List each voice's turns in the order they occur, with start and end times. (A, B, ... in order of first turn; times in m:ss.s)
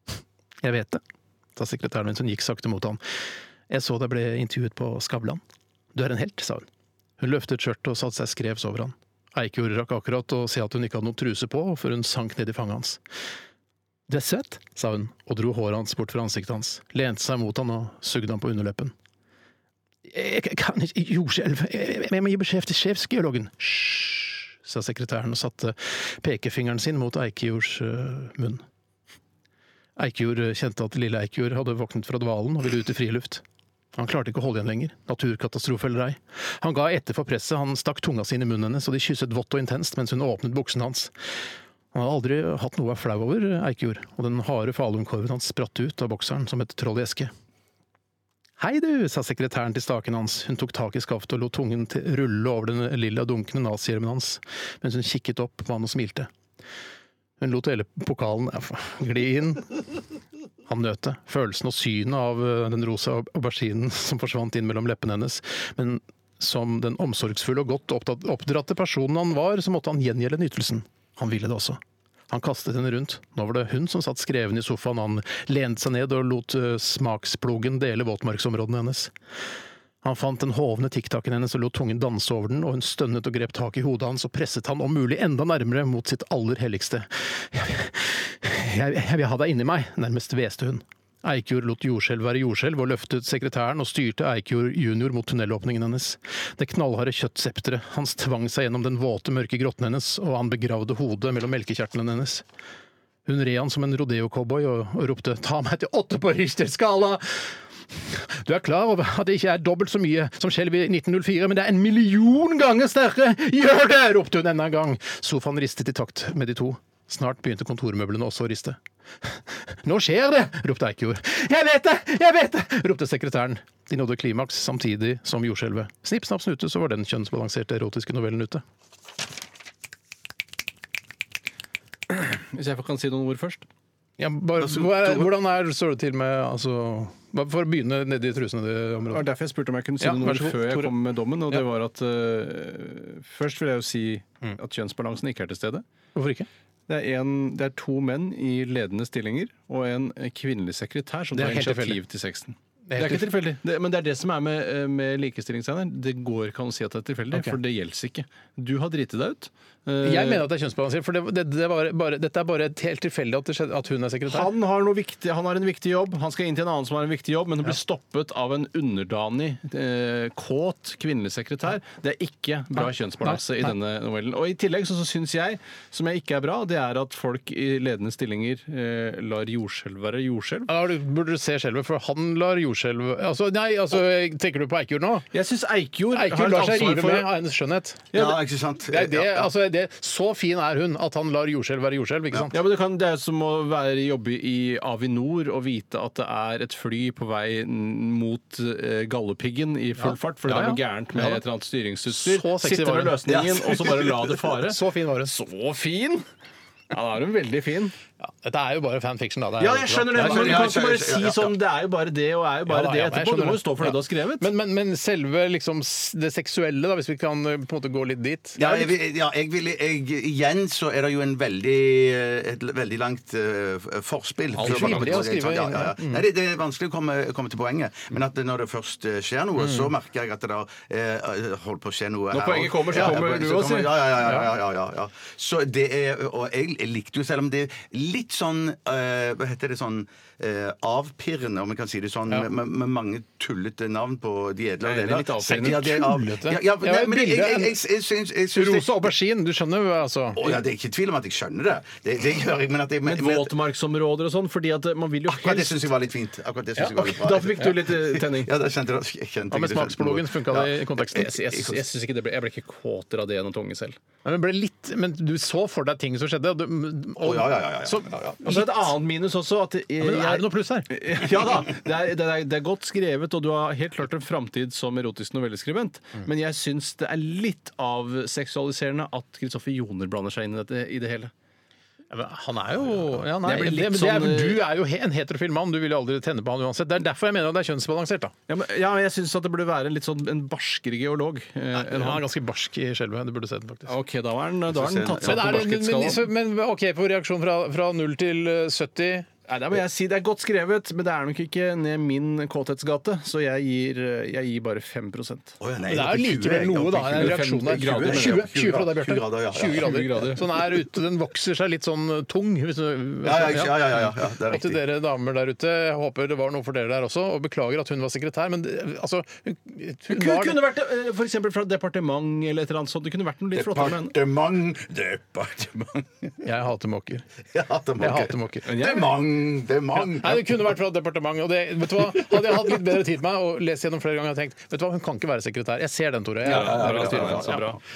0:00.6-0:01.0 A
0:01.6-0:03.0 A
0:03.7-0:05.4 A
0:05.9-0:06.6 A
0:07.2-0:13.0 A
0:14.1-0:18.9 A
0:20.0-0:28.6 A
0:30.0-0:33.4 A
0:34.0-0:41.1 A
0:41.9-0:47.3 A
0:48.6-0:56.3 A
0:57.4-0:59.8 A
1:00.7-1:11.8 A
1:12.3-1:19.1 A
1:20.0-1:42.4 A
1:43.3-2:08.6 A
2:12.1-2:13.6 B
2:14.2-2:19.2 A
2:14.6-2:15.3 C
2:19.1-2:25.8 B
2:20.0-2:20.9 A
2:26.2-2:26.5 A
2:26.9-2:40.4 B
2:31.3-2:32.0 A
2:32.9-2:33.4 A
2:37.3-2:37.6 A
2:40.0-2:44.5 A
2:44.3-3:00.7 B
2:52.8-2:53.7 A
3:00.7-3:05.3 A
3:05.3-3:07.3 B
3:06.1-3:08.1 A
3:08.1-3:08.4 B
3:08.1-3:09.5 C
3:08.9-3:12.5 A
3:12.5-3:26.3 B
3:20.0-3:21.4 A
3:22.1-3:23.2 A
3:23.3-3:24.6 C
3:24.7-3:25.3 A
3:26.9-3:28.0 B
3:28.2-3:30.7 A
3:29.6-3:34.5 B
3:30.2-3:31.6 C
3:32.7-3:38.9 A
3:38.6-4:09.1 C
3:44.5-3:46.2 A
3:44.7-3:45.2 B
3:49.6-3:49.9 A
3:52.3-3:54.1 B
4:04.8-4:06.0 B
4:05.6-4:07.8 A
4:08.5-4:10.5 A
4:10.4-4:13.5 C
4:13.0-4:15.9 B
4:15.3-4:21.8 C
4:16.8-4:18.5 B
4:19.5-4:21.4 A
4:21.1-4:24.0 B
4:24.2-4:28.7 A
4:27.2-4:28.4 C
4:28.4-4:41.3 B
4:30.0-4:30.9 A
4:42.1-4:48.3 A
4:43.4-4:44.7 B
4:48.5-4:52.2 B
4:51.7-4:53.9 A
4:53.9-4:56.3 B
4:54.7-4:55.6 C
4:55.2-4:59.3 A
4:59.5-5:05.6 B
5:05.6-5:10.0 C
5:05.9-5:20.6 A
5:07.1-5:08.5 B
5:09.7-5:10.4 B
5:13.2-5:14.8 C
5:20.1-5:24.2 B
5:23.5-5:26.3 C
5:26.4-5:27.2 A
5:27.5-5:30.6 C
5:28.0-5:28.7 A
5:28.7-5:29.2 B
5:30.0-5:37.7 A
5:36.4-5:37.8 C
5:36.4-5:37.8 B